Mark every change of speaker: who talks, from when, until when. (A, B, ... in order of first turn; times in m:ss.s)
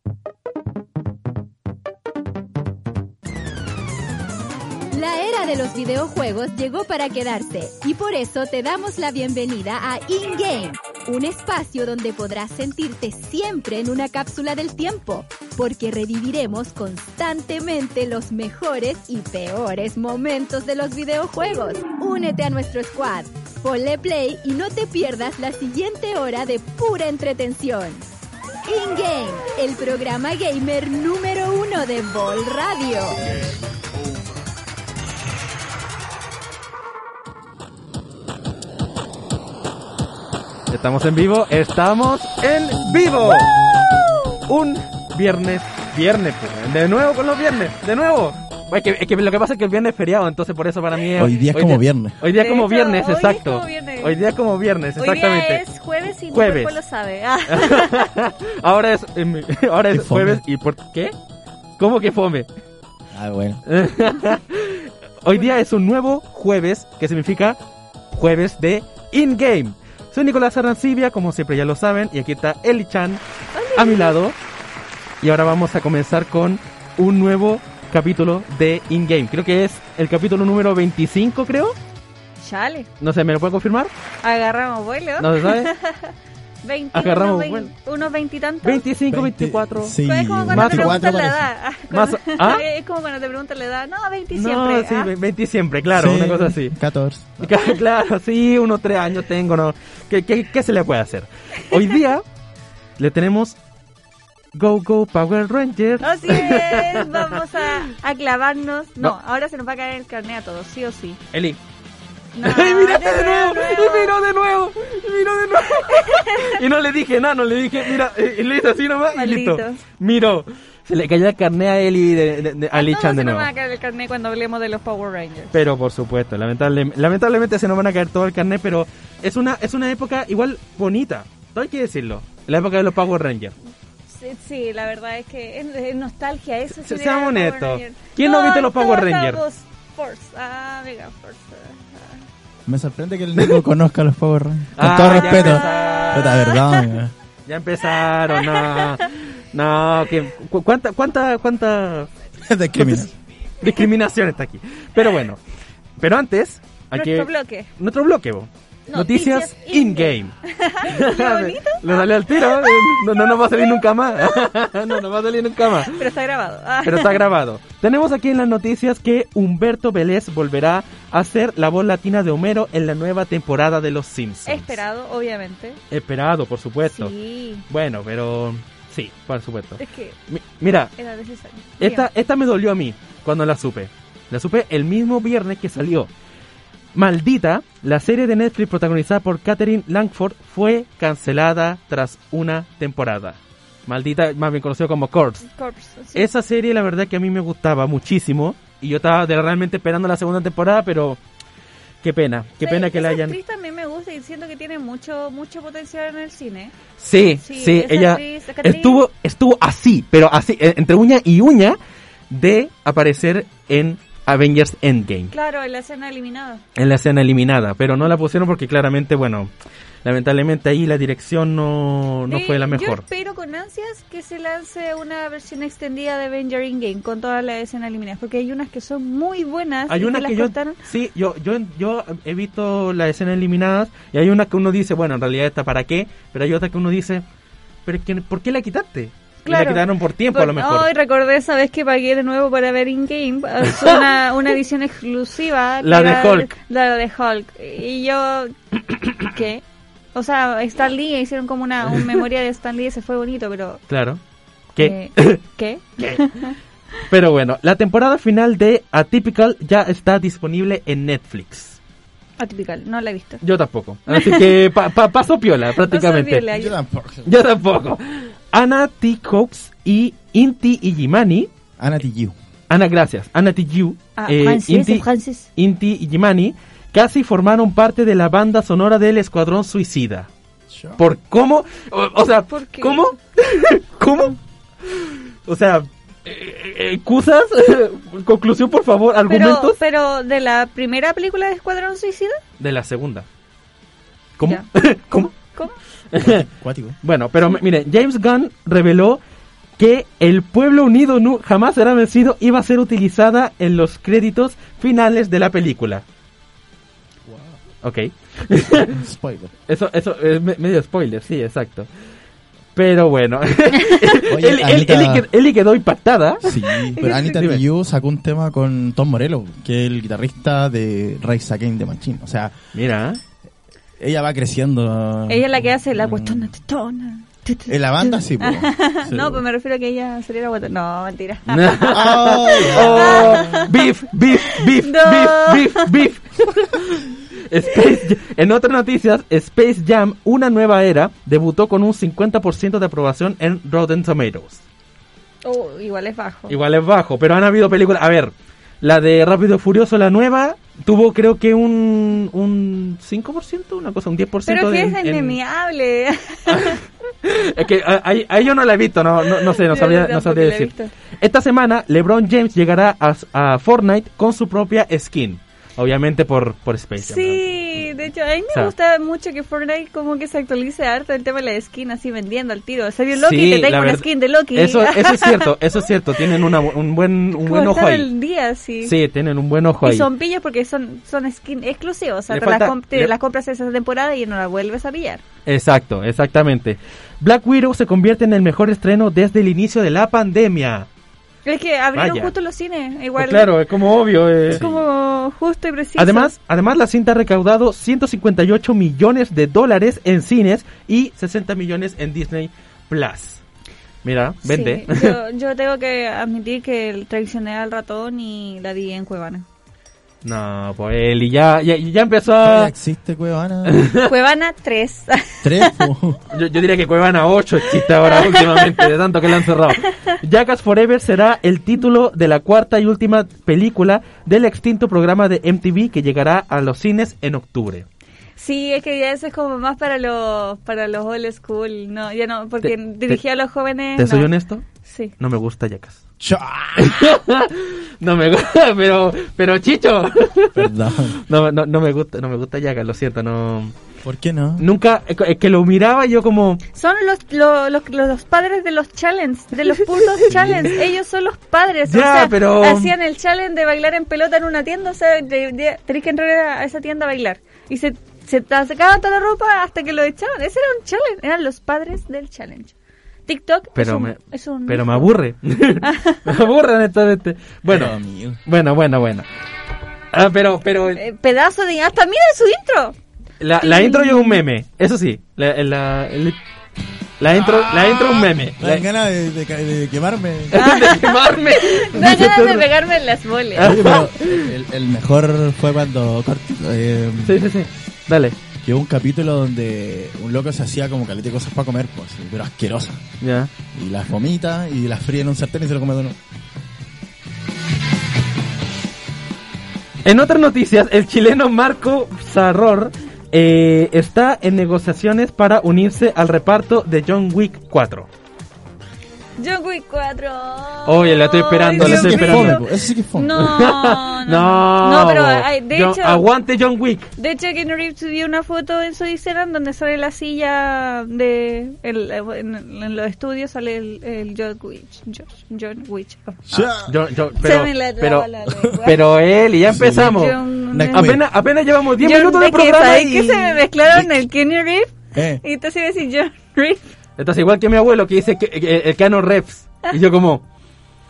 0:04.9-0:28.0 A
0:28.7-0:33.2 A
0:40.7-0:43.5 B
0:44.5-0:55.6 B
0:51.2-0:52.2 C
0:52.3-0:54.2 D
0:55.0-0:58.1 D
0:56.3-0:56.8 B
0:57.5-1:01.2 B
0:59.9-1:00.4 C
1:01.8-1:02.5 B
1:03.1-1:03.6 C
1:03.7-1:07.6 B
1:08.1-1:13.2 B
1:13.5-1:14.1 D
1:13.8-1:14.4 B
1:15.2-1:21.8 B
1:22.4-1:22.9 D
1:23.0-1:23.9 B
1:24.2-1:26.1 D
1:25.2-1:25.7 B
1:26.6-1:28.8 D
1:26.9-1:27.7 B
1:28.6-1:29.9 B
1:29.1-1:31.5 C
1:30.0-1:35.1 D
1:30.5-1:31.0 B
1:31.9-1:32.6 B
1:34.3-1:36.8 B
1:35.9-1:37.5 C
1:37.4-1:42.2 B
1:43.0-1:43.6 B
1:44.5-1:47.4 B
1:46.0-1:51.2 D
1:51.3-1:51.6 B
1:52.3-1:54.2 D
1:52.4-2:03.5 B
1:55.9-1:56.6 D
1:59.2-1:59.8 D
2:02.7-2:05.6 D
2:05.5-2:13.5 B
2:14.1-2:22.2 D
2:16.8-2:19.4 B
2:22.7-2:27.1 C
2:24.8-2:26.3 B
2:24.8-2:26.9 D
2:27.5-2:32.1 B
2:28.3-2:28.9 D
2:32.4-2:33.1 C
2:32.8-2:33.0 B
2:33.6-2:35.4 B
2:36.0-2:40.3 B
2:36.9-2:37.7 D
2:38.9-2:45.0 D
2:40.9-2:46.0 B
2:45.8-2:47.2 D
2:46.8-2:54.8 B
2:54.5-2:55.8 D
2:55.9-2:57.1 B
2:56.9-2:57.6 D
2:57.7-3:00.9 B
2:59.8-3:00.2 D
3:01.0-3:02.1 D
3:01.8-3:06.1 B
3:06.9-3:15.4 B
3:15.5-3:16.2 D
3:16.2-3:21.2 B
3:22.0-3:23.4 B
3:22.6-3:26.7 D
3:27.0-3:31.8 B
3:27.4-3:29.0 D
3:32.3-3:35.3 B
3:35.3-3:36.6 D
3:36.8-3:39.5 B
3:40.0-3:43.0 B
3:42.3-3:50.8 D
3:49.9-3:57.2 B
3:57.9-4:00.9 B
3:59.4-4:08.5 D
4:03.6-4:04.1 B
4:05.8-4:06.5 B
4:09.2-4:09.6 D
4:10.1-4:13.8 D
4:13.9-4:14.2 B
4:14.8-4:15.4 B
4:14.8-4:16.6 D
4:16.0-4:16.2 B
4:17.1-4:21.8 B
4:22.4-4:23.4 D
4:23.4-4:26.4 B
4:24.1-4:24.6 D
4:25.8-4:26.8 D
4:26.5-4:27.3 C
4:27.2-4:31.5 B
4:31.8-4:32.4 C
4:32.7-4:40.3 B
4:34.2-4:35.5 D
4:40.7-4:41.0 C
4:41.0-4:49.8 B
4:42.5-4:43.1 D
4:49.3-4:52.4 D
4:52.6-4:53.2 B
4:54.4-4:55.4 B
4:55.4-4:55.8 D
4:56.1-4:56.4 B
4:56.2-4:57.0 C
4:57.0-4:59.2 B
4:59.8-5:06.0 B
5:07.3-5:07.6 C
5:07.8-5:09.0 B
5:08.6-5:09.5 C
5:09.7-5:11.9 B
5:12.8-5:16.6 B
5:14.3-5:15.3 C
5:16.4-5:22.5 C
5:17.0-5:17.4 D
5:17.3-5:17.6 B
5:22.8-5:23.2 B
5:24.0-5:26.5 C
5:25.3-5:33.7 D
5:27.7-5:28.8 C
5:31.5-5:44.6 B
5:31.8-5:33.7 C
5:34.6-5:35.9 D
5:45.4-5:46.6 D
5:46.5-5:55.4 B
5:54.5-5:56.8 D
5:56.5-6:07.9 B
5:59.3-6:00.9 D
6:07.0-6:15.6 D
6:13.1-6:18.1 B
6:17.4-6:18.9 D
6:18.8-6:20.1 B
6:19.8-6:25.2 D
6:22.3-6:23.1 B
6:25.4-6:30.9 B
6:31.4-6:33.5 D
6:31.9-6:32.3 B
6:33.2-6:34.7 B
6:34.5-6:36.3 D
6:36.0-6:43.4 B
6:44.0-6:45.2 B
6:44.4-6:49.4 D
6:50.2-6:52.7 B
6:52.4-6:53.9 C
6:53.7-6:54.1 B
6:54.0-6:55.8 D
6:55.4-6:56.2 C
6:56.3-7:07.9 B
6:58.1-6:58.9 D
7:08.4-7:14.3 D
7:12.6-7:13.2 B
7:14.0-7:14.7 B
7:14.8-7:15.1 D
7:15.2-7:16.0 B
7:16.2-7:17.1 C
7:16.8-7:20.7 B
7:20.6-7:21.2 C
7:21.2-7:23.7 B
7:24.0-7:24.6 C
7:24.6-7:26.6 B
7:26.7-7:42.7 D
7:29.7-7:30.6 B
7:31.9-7:32.9 B
7:43.3-7:45.1 D
7:43.8-7:47.9 B
7:45.8-7:46.2 D
7:47.7-7:48.4 C
7:48.4-7:49.2 B
7:50.1-7:51.0 B
7:51.0-7:53.0 D
7:53.4-7:56.4 B
7:53.6-7:54.4 D
7:57.2-7:58.9 B
7:57.3-8:00.6 C
8:00.5-8:02.7 B
8:00.6-8:03.8 D
8:03.6-8:04.5 B
8:03.6-8:07.4 C
8:07.2-8:08.3 B
8:08.6-8:13.0 C
8:13.2-8:13.5 B
8:13.7-8:16.2 C
8:20.0-8:28.1 B
8:29.4-8:36.2 D
8:30.8-8:32.6 B
8:31.8-8:33.7 C
8:33.4-8:37.1 B
8:37.2-8:46.4 D
8:46.5-8:47.0 C
8:46.8-8:48.3 B
8:47.4-8:49.0 D
8:48.8-8:50.4 B
8:49.6-8:51.2 C
8:49.9-8:51.2 D
8:50.9-8:53.6 B
8:52.0-8:56.9 D
8:55.1-8:55.4 C
8:57.2-9:00.4 B